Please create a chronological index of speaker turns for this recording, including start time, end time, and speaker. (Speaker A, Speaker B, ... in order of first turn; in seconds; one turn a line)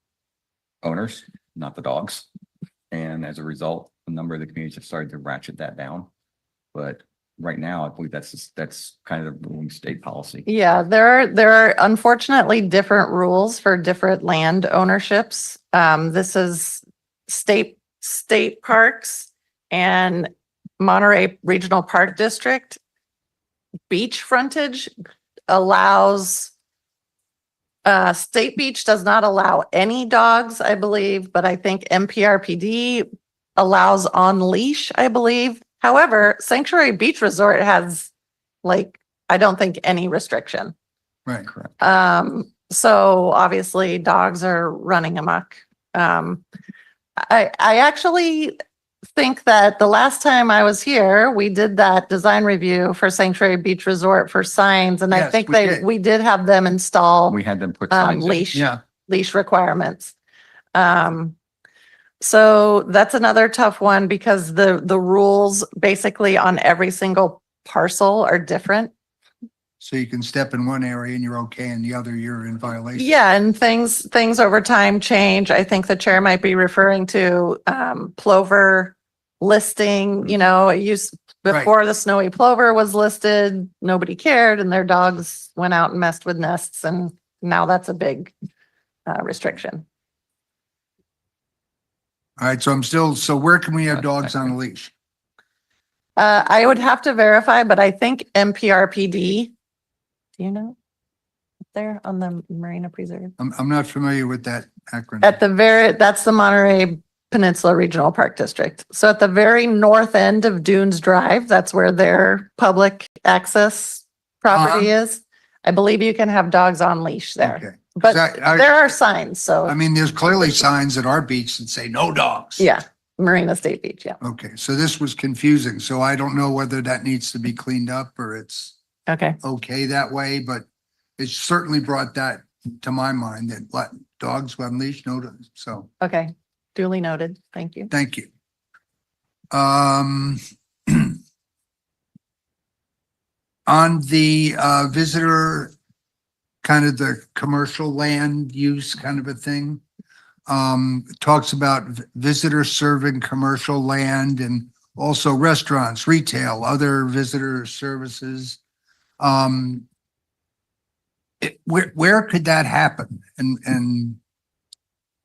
Speaker A: 0.8-2.3
Speaker A: 2.9-6.1
Speaker A: 6.7-10.5
Speaker B: 10.5-22.8
Speaker B: 23.9-24.9
Speaker B: 25.5-26.5
Speaker B: 27.9-38.1
Speaker B: 38.6-40.7
Speaker B: 41.8-46.4
Speaker B: 47.2-48.6
Speaker B: 49.1-57.4
Speaker C: 55.1-55.9
Speaker A: 57.3-58.5
Speaker B: 57.9-60.1
Speaker C: 58.5-58.8
Speaker B: 60.7-61.4
Speaker B: 62.2-68.9
Speaker C: 69.8-73.1
Speaker B: 73.0-88.3
Speaker B: 89.1-89.9
Speaker C: 92.4-94.9
Speaker B: 96.2-99.5
Speaker B: 100.4-100.8
Speaker B: 101.7-103.3
Speaker C: 103.4-105.4
Speaker B: 105.2-119.8
Speaker C: 114.5-114.9
Speaker C: 117.4-118.7
Speaker C: 119.7-122.6
Speaker B: 122.6-124.2
Speaker C: 124.2-128.7
Speaker B: 129.1-129.4
Speaker C: 129.4-130.7
Speaker C: 131.2-135.9
Speaker B: 136.0-137.9
Speaker C: 137.9-138.3
Speaker C: 139.5-141.2
Speaker C: 143.7-145.7
Speaker C: 146.6-149.8
Speaker C: 150.5-158.6
Speaker C: 159.2-159.8
Speaker C: 161.4-164.2